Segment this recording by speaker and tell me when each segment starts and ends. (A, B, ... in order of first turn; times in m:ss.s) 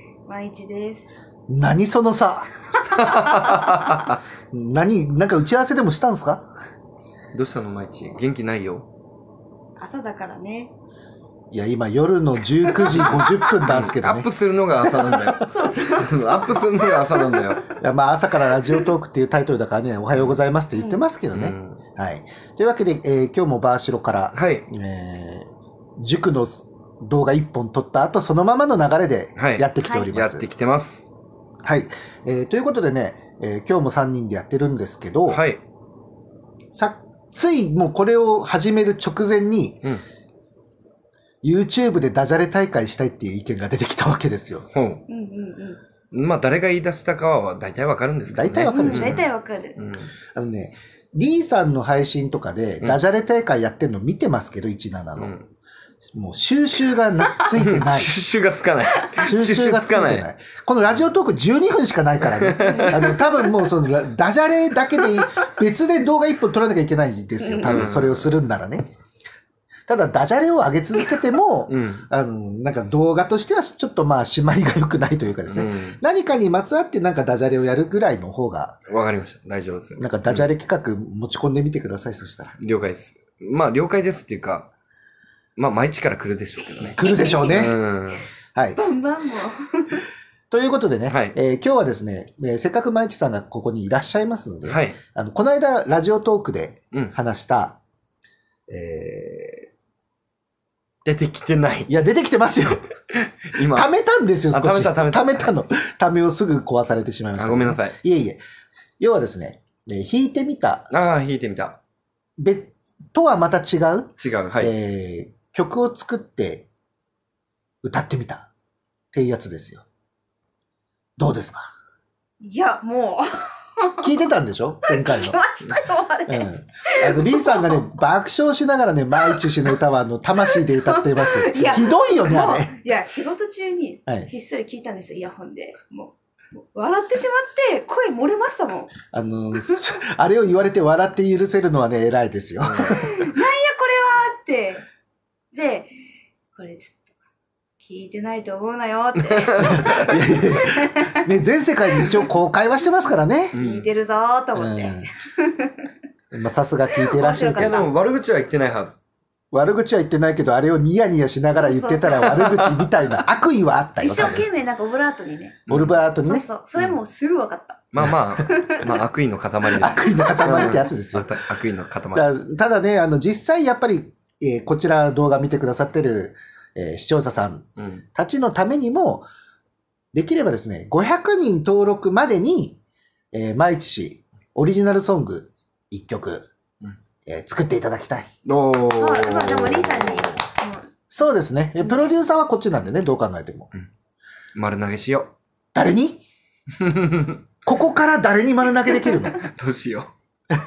0:00.2-0:01.1 A
0:01.5-0:02.5 B
0:03.0-0:04.2 C
0:04.5-0:06.5 B
0:07.3-0:08.9 C
0:09.8-0:10.7 A
0:11.5-0:14.3 B
0:12.7-0:13.5 A
0:13.0-0:17.7 C
0:15.0-0:17.6 A
0:17.8-0:30.4 B
0:20.7-0:21.1 A
0:21.3-0:21.8 C
0:24.3-0:24.7 C
0:29.4-0:31.0 C
0:29.8-0:30.1 A
0:31.6-0:35.4 B
0:35.3-0:35.6 C
0:36.7-0:39.8 B
0:41.4-0:44.7 B
0:44.7-0:45.0 C
0:45.1-0:45.8 A
0:46.1-0:50.1 C
0:48.3-0:49.2 B
0:48.7-0:49.8 A
0:50.3-0:55.4 B
0:55.2-0:55.5 C
0:56.1-0:58.1 B
0:57.5-1:00.2 C
0:59.2-1:08.9 B
1:02.3-1:03.0 C
1:02.7-1:03.5 A
1:05.0-1:05.3 A
1:07.4-1:07.8 A
1:07.6-1:08.3 C
1:09.9-1:18.8 B
1:11.7-1:12.1 C
1:15.5-1:16.0 C
1:18.9-1:20.5 C
1:20.0-1:22.5 B
1:22.6-1:24.7 C
1:25.6-1:28.3 C
1:27.0-1:27.7 B
1:27.0-1:27.7 A
1:28.5-1:28.8 B
1:28.8-1:30.0 A
1:30.5-1:37.8 B
1:31.1-1:31.4 C
1:34.6-1:35.0 C
1:38.7-1:39.7 B
1:41.0-1:42.0 C
1:41.9-1:42.9 B
1:43.5-1:43.9 C
1:43.6-1:48.4 B
1:44.5-1:45.5 C
1:47.3-1:48.0 C
1:49.0-1:50.9 B
1:50.9-1:51.8 C
1:52.4-1:56.7 B
1:54.2-1:54.8 C
1:57.8-1:58.5 B
1:59.1-1:59.8 B
2:01.2-2:01.7 B
2:02.4-2:04.2 A
2:04.0-2:05.4 B
2:04.8-2:07.8 A
2:06.2-2:12.8 B
2:10.4-2:19.0 A
2:19.1-2:23.2 B
2:22.6-2:23.0 C
2:22.8-2:24.8 A
2:25.5-2:25.9 A
2:26.5-2:27.0 A
2:27.8-2:31.3 A
2:29.5-2:29.9 C
2:29.6-2:33.6 B
2:32.0-2:32.2 A
2:33.5-2:35.9 A
2:33.5-2:33.9 C
2:34.5-2:35.1 B
2:36.3-2:37.9 B
2:37.0-2:37.9 A
2:37.6-2:39.0 C
2:39.5-2:44.5 B
2:41.5-2:42.4 A
2:42.4-2:42.9 C
2:44.0-2:49.0 A
2:45.7-2:46.1 C
2:45.7-2:46.4 B
2:47.9-2:52.3 C
2:49.7-2:51.3 B
2:49.9-2:50.5 A
2:52.1-2:59.3 B
2:57.8-2:58.0 C
3:00.1-3:02.8 B
3:03.3-3:06.5 B
3:07.2-3:08.3 B
3:08.4-3:10.4 C
3:08.8-3:12.1 A
3:11.1-3:13.7 B
3:14.5-3:15.3 C
3:15.7-3:16.2 B
3:16.8-3:17.4 C
3:17.6-3:19.4 B
3:19.4-3:20.1 C